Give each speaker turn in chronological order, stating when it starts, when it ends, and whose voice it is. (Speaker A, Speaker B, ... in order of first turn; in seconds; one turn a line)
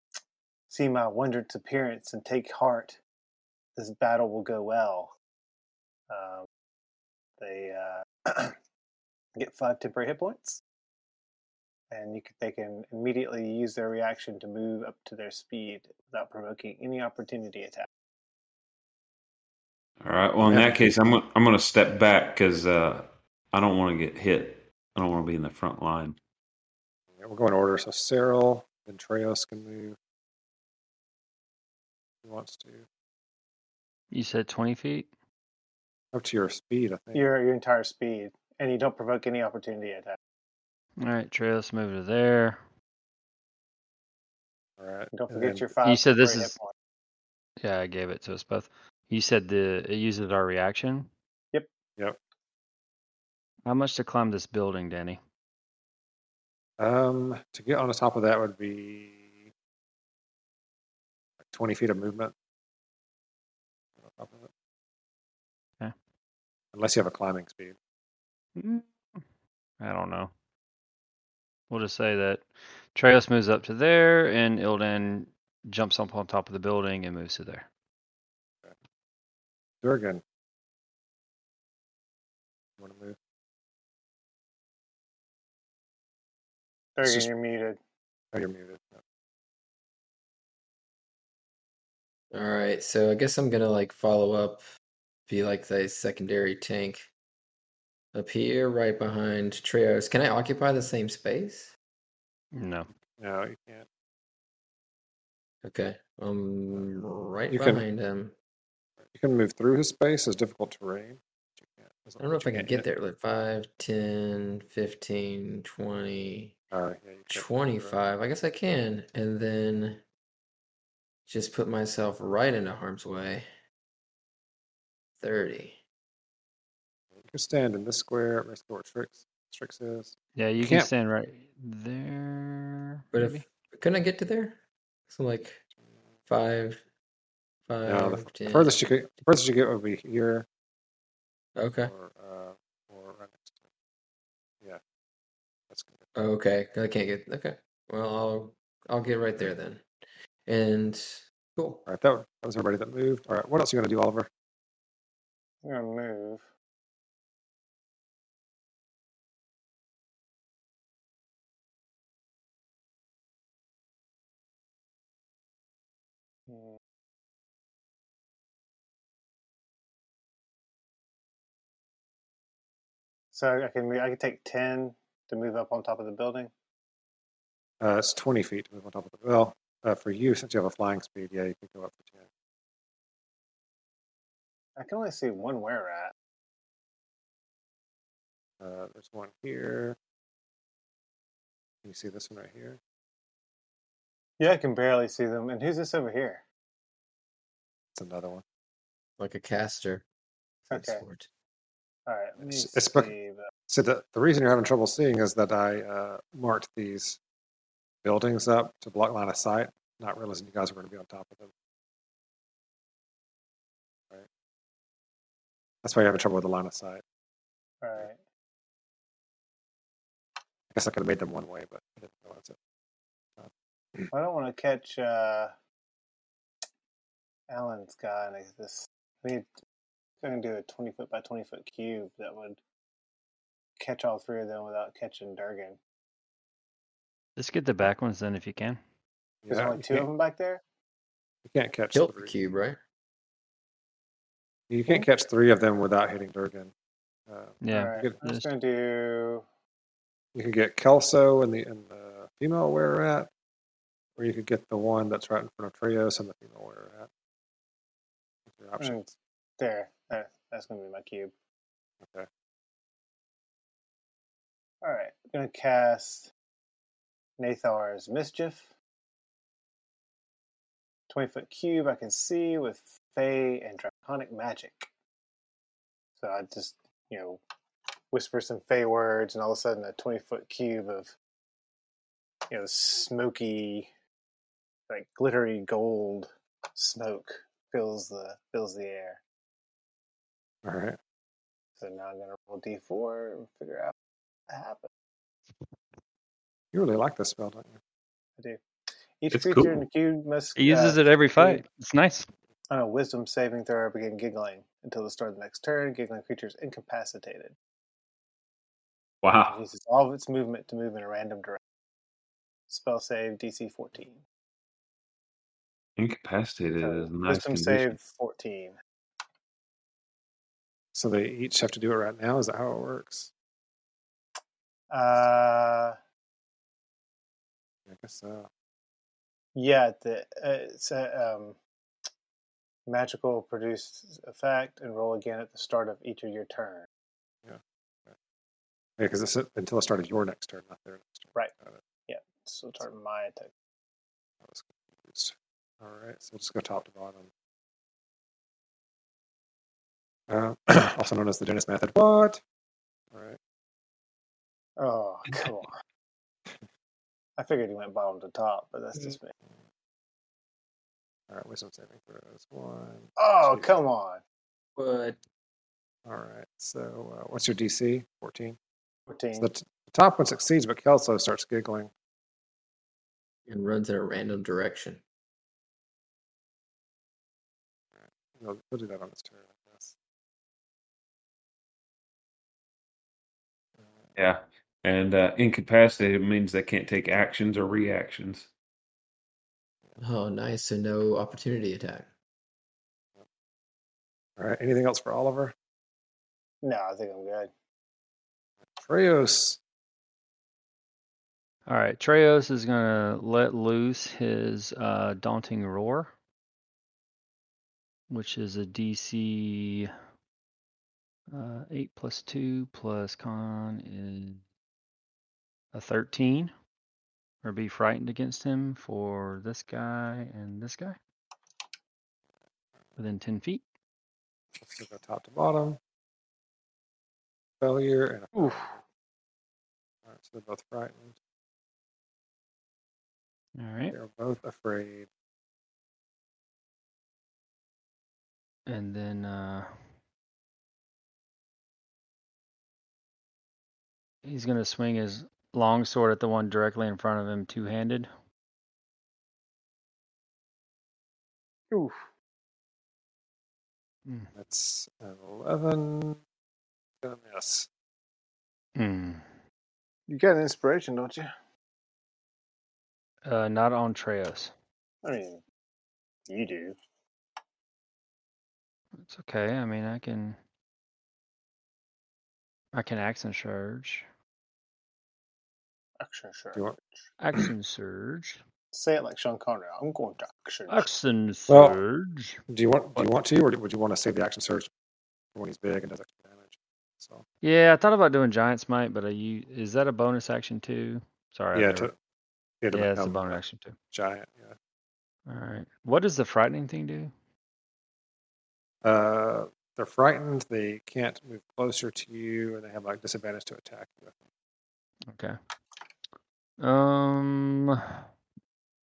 Speaker A: 0.7-3.0
Speaker A: 3.8-5.1
Speaker A: 6.1-6.5
Speaker A: 7.4-8.6
Speaker A: 9.3-10.6
Speaker A: 11.9-17.9
Speaker B: 20.0-26.2
Speaker C: 20.4-20.8
Speaker C: 27.1-29.9
Speaker C: 32.2-32.9
Speaker D: 34.1-35.1
Speaker C: 36.1-37.3
Speaker A: 37.1-40.2
Speaker D: 41.0-42.6
Speaker C: 44.8-45.7
Speaker A: 45.1-46.7
Speaker D: 45.8-46.5
Speaker D: 47.6-51.1
Speaker D: 53.6-55.2
Speaker C: 56.8-59.5
Speaker C: 61.4-62.3
Speaker C: 64.0-64.5
Speaker C: 66.7-67.8
Speaker D: 68.5-68.9
Speaker D: 69.8-70.3
Speaker D: 71.7-77.7
Speaker C: 79.8-80.2
Speaker C: 82.8-83.2
Speaker A: 87.0-87.8
Speaker C: 87.0-87.3
Speaker C: 88.3-89.0
Speaker E: 92.3-94.6
Speaker E: 95.3-97.1
Speaker E: 98.1-101.7
Speaker D: 102.5-102.9
Speaker C: 103.2-103.8
Speaker E: 105.6-108.3
Speaker C: 107.5-107.8
Speaker C: 109.0-112.8
Speaker E: 112.2-116.5
Speaker C: 116.7-118.0
Speaker E: 117.3-120.0
Speaker E: 121.3-123.5
Speaker E: 125.2-125.8
Speaker C: 127.1-130.9
Speaker D: 130.3-133.4
Speaker E: 133.1-135.6
Speaker E: 136.3-136.8
Speaker E: 137.7-138.8
Speaker C: 137.8-140.5
Speaker E: 141.6-141.9
Speaker C: 141.8-143.7
Speaker C: 145.7-146.1
Speaker E: 146.1-149.8
Speaker E: 150.4-151.8
Speaker C: 151.9-154.3
Speaker A: 155.6-156.5
Speaker A: 166.5-166.8
Speaker A: 173.3-176.5
Speaker C: 177.8-182.3
Speaker A: 184.8-186.1
Speaker C: 188.6-190.0
Speaker C: 191.8-192.8
Speaker A: 194.4-196.4
Speaker C: 197.9-198.4
Speaker E: 199.2-200.1
Speaker A: 200.7-201.0
Speaker E: 200.7-201.3
Speaker A: 202.1-203.4
Speaker C: 202.4-203.1
Speaker C: 203.7-207.2
Speaker C: 208.0-211.5
Speaker C: 215.8-217.0
Speaker A: 217.8-218.2
Speaker C: 220.7-222.6
Speaker C: 223.4-224.1
Speaker A: 224.1-225.5
Speaker A: 227.5-229.5
Speaker A: 230.2-232.6
Speaker A: 233.8-235.8
Speaker D: 237.4-238.8
Speaker C: 239.4-240.1
Speaker A: 239.5-240.6
Speaker C: 241.4-242.4
Speaker E: 241.9-242.8
Speaker C: 244.7-246.7
Speaker C: 247.3-248.1
Speaker D: 247.6-248.5
Speaker A: 247.7-249.4
Speaker C: 250.3-253.3
Speaker C: 254.2-257.1
Speaker C: 258.5-259.0
Speaker A: 258.8-261.3
Speaker C: 262.0-262.3
Speaker A: 264.8-266.3
Speaker A: 267.4-268.7
Speaker A: 271.1-274.9
Speaker A: 276.2-277.4
Speaker A: 278.1-281.1
Speaker A: 282.5-283.9
Speaker A: 284.9-289.2
Speaker C: 290.6-291.0
Speaker A: 291.8-293.9
Speaker A: 294.5-294.9
Speaker C: 296.7-297.8
Speaker A: 299.2-301.6
Speaker B: 299.3-299.8
Speaker D: 300.6-302.3
Speaker A: 302.7-307.6
Speaker B: 309.2-309.6
Speaker A: 309.5-311.6
Speaker A: 312.7-314.2
Speaker B: 316.0-318.0
Speaker A: 316.8-318.8
Speaker C: 320.9-323.3
Speaker A: 324.9-326.0
Speaker C: 327.9-328.5
Speaker A: 329.6-331.6
Speaker A: 332.9-336.9
Speaker C: 337.4-338.1
Speaker C: 339.0-341.8
Speaker A: 342.1-343.5
Speaker C: 344.4-347.3
Speaker C: 350.3-352.4
Speaker C: 353.1-353.4
Speaker A: 354.8-355.7
Speaker A: 357.4-359.3
Speaker C: 361.3-363.7
Speaker A: 363.2-364.2
Speaker E: 364.8-365.2
Speaker C: 366.1-368.6
Speaker A: 369.1-369.5
Speaker C: 369.4-371.9
Speaker E: 373.5-375.0
Speaker C: 377.9-379.9
Speaker C: 383.8-384.1
Speaker B: 384.1-388.5
Speaker E: 390.0-392.1
Speaker C: 394.4-395.5
Speaker A: 396.6-397.5
Speaker C: 398.7-399.6
Speaker D: 401.7-406.1
Speaker D: 408.1-409.9
Speaker D: 411.3-414.4
Speaker D: 415.7-416.5
Speaker D: 417.4-421.0
Speaker D: 423.0-423.6
Speaker C: 424.6-425.8
Speaker C: 427.6-428.8
Speaker C: 430.1-431.2
Speaker D: 433.6-433.9
Speaker C: 433.9-435.1
Speaker D: 438.7-439.8
Speaker D: 444.2-448.1
Speaker A: 451.7-452.0
Speaker D: 454.1-454.3
Speaker C: 454.3-456.2
Speaker C: 457.0-457.7
Speaker D: 458.8-459.3
Speaker A: 460.1-461.3
Speaker D: 463.2-464.5
Speaker A: 465.0-465.4
Speaker A: 466.3-466.8
Speaker D: 469.0-470.4
Speaker D: 472.7-474.1
Speaker A: 476.0-477.0
Speaker D: 477.2-478.4
Speaker A: 478.7-480.9
Speaker D: 480.7-482.4
Speaker C: 481.5-481.8
Speaker C: 482.5-484.7
Speaker C: 485.3-487.2
Speaker D: 487.4-491.9
Speaker C: 491.5-491.9
Speaker C: 492.6-493.4
Speaker D: 492.7-493.8
Speaker C: 493.9-494.6
Speaker D: 495.3-497.1
Speaker C: 498.8-504.3
Speaker D: 505.1-505.4
Speaker D: 506.6-508.0